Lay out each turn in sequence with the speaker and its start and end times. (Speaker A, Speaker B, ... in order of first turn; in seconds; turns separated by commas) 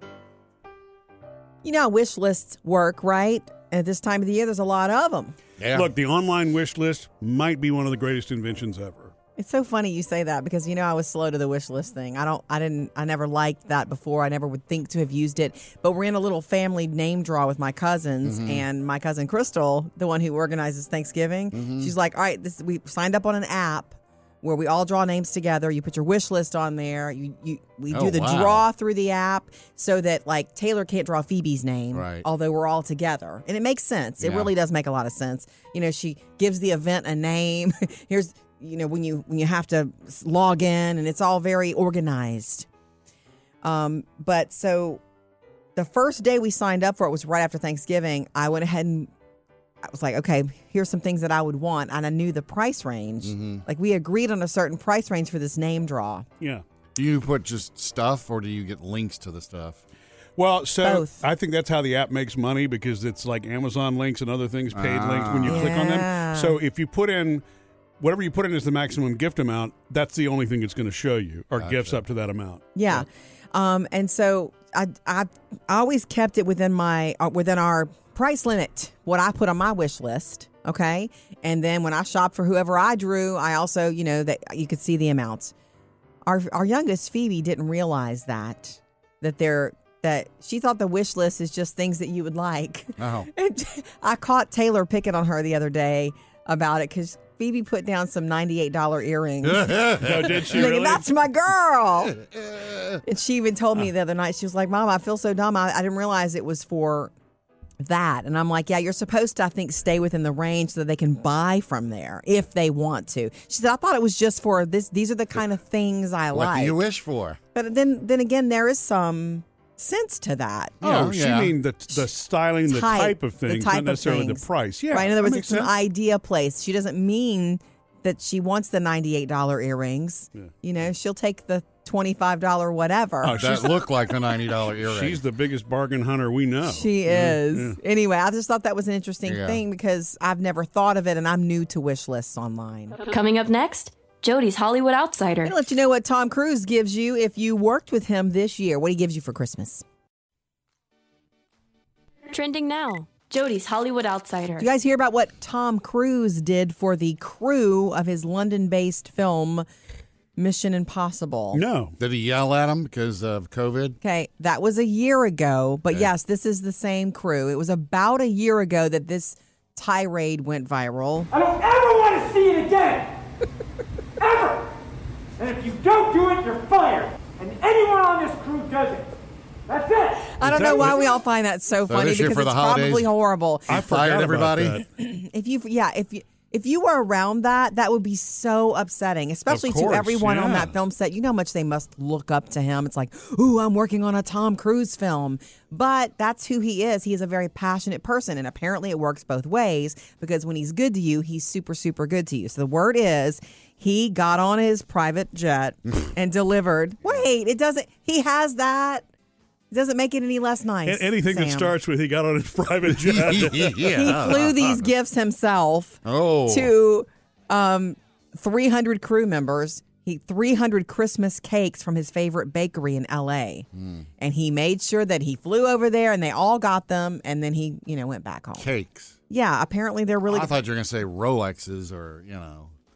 Speaker A: 1.6-5.3, Speaker B: 5.6-5.9, Speaker C: 5.7-9.1, Speaker A: 9.4-42.7, Speaker B: 18.2-18.6, Speaker B: 21.5-21.9, Speaker B: 27.9-28.6, Speaker B: 31.9-32.2, Speaker B: 34.2-34.5, Speaker A: 43.6-45.0, Speaker A: 45.8-49.1, Speaker A: 49.8-56.2, Speaker B: 53.2-53.6, Speaker B: 57.0-59.8, Speaker C: 60.4-67.4, Speaker A: 60.8-61.1, Speaker B: 64.7-65.7, Speaker A: 65.5-66.5, Speaker C: 68.0-73.0, Speaker B: 71.6-72.0, Speaker A: 72.7-85.5, Speaker A: 86.2-102.1, Speaker B: 93.0-93.3, Speaker B: 99.4-100.6, Speaker C: 100.0-101.1, Speaker B: 102.1-103.0, Speaker A: 103.0-107.1, Speaker A: 107.8-116.8, Speaker B: 116.3-117.4, Speaker A: 117.5-120.8, Speaker B: 120.8-121.5, Speaker C: 120.8-125.7, Speaker A: 122.7-133.4, Speaker C: 133.2-133.8, Speaker B: 133.3-135.2, Speaker C: 134.8-137.8, Speaker A: 136.7-142.9, Speaker B: 139.2-139.6, Speaker D: 143.0-145.5, Speaker A: 145.4-149.8, Speaker D: 152.3-154.7, Speaker A: 154.6-159.7, Speaker A: 160.3-161.6, Speaker C: 161.5-161.9, Speaker B: 162.0-164.0, Speaker A: 164.0-171.3, Speaker E: 171.3-173.2, Speaker E: 174.2-174.7, Speaker E: 175.4-179.2, Speaker E: 179.7-180.3, Speaker A: 180.4-183.8, Speaker C: 180.4-181.2, Speaker B: 180.6-180.9, Speaker B: 181.9-183.1, Speaker C: 183.7-184.8, Speaker B: 183.7-184.8, Speaker A: 184.9-209.0, Speaker C: 189.5-190.7, Speaker A: 209.7-211.7, Speaker C: 210.8-213.8, Speaker B: 213.0-214.9, Speaker A: 213.8-223.7, Speaker B: 216.0-216.7, Speaker B: 223.7-224.1, Speaker A: 224.2-228.7, Speaker B: 228.6-229.2, Speaker A: 229.3-230.5, Speaker B: 230.3-232.7